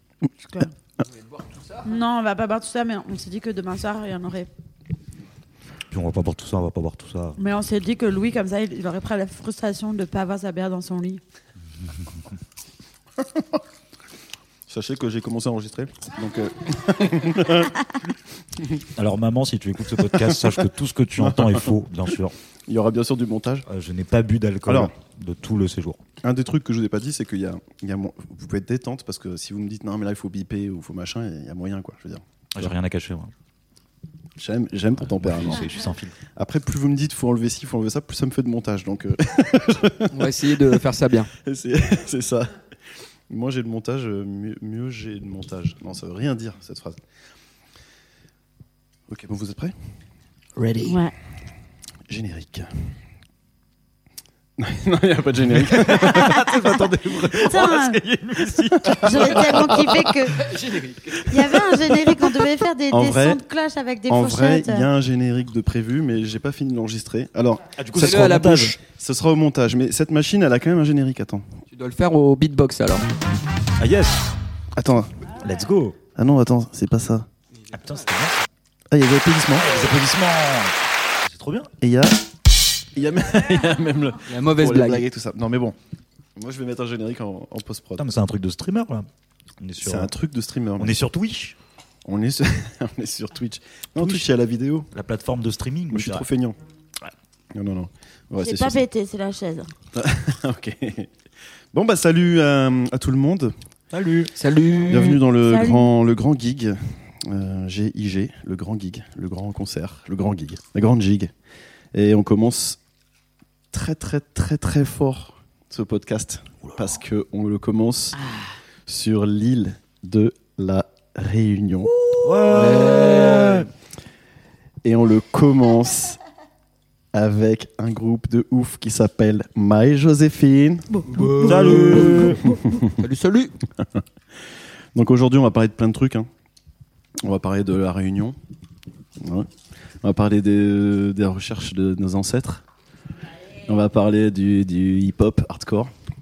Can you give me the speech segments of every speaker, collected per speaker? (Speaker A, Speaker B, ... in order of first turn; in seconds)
Speaker A: 0.4-0.7, 1.8-4.5, 7.4-11.2, 50.8-51.1, 57.3-58.0, 59.0-60.5, 61.2-64.9, 98.4-99.7, 105.3-105.9, 130.9-132.7
Speaker B: 5.9-7.4, 18.9-22.3, 23.7-26.0, 32.5-33.3, 35.0-36.1, 55.5-60.1, 61.4-62.3, 67.8-68.8, 73.8-74.3, 75.3-76.0, 77.7-78.5, 79.6-81.7, 88.0-89.1, 89.6-90.1, 90.8-91.5, 94.0-94.3, 94.9-96.2, 103.9-104.3, 122.2-123.7, 131.4-132.4
Speaker C: 14.7-17.8, 19.9-20.4, 21.2-21.7, 22.7-23.7, 24.6-24.9, 26.2-32.7, 34.4-35.7, 36.4-40.7, 41.4-42.5, 43.3-47.0, 49.1-49.7, 52.1-52.9, 54.6-56.5, 58.9-59.3, 62.9-63.4, 64.1-68.2, 68.8-71.4, 74.8-75.2, 76.1-77.3, 78.9-79.7, 81.8-82.2, 82.9-85.8, 86.4-88.0, 89.8-90.9, 92.0-94.9, 95.9-96.6, 97.5-98.8, 99.9-101.1, 101.7-103.5, 104.9-111.3, 111.9-112.8, 113.7-118.2, 118.9-121.9, 122.6-123.1, 124.8-126.2, 127.1-133.0, 134.9-136.3, 137.2-138.3, 139.2-139.5, 140.0-142.6, 143.7-145.9
Speaker D: 40.1-41.3, 50.6-51.0, 60.5-61.0, 67.9-68.8, 71.7-73.1, 84.3-85.0, 104.3-105.2, 122.4-123.7, 131.1-132.3, 132.9-133.5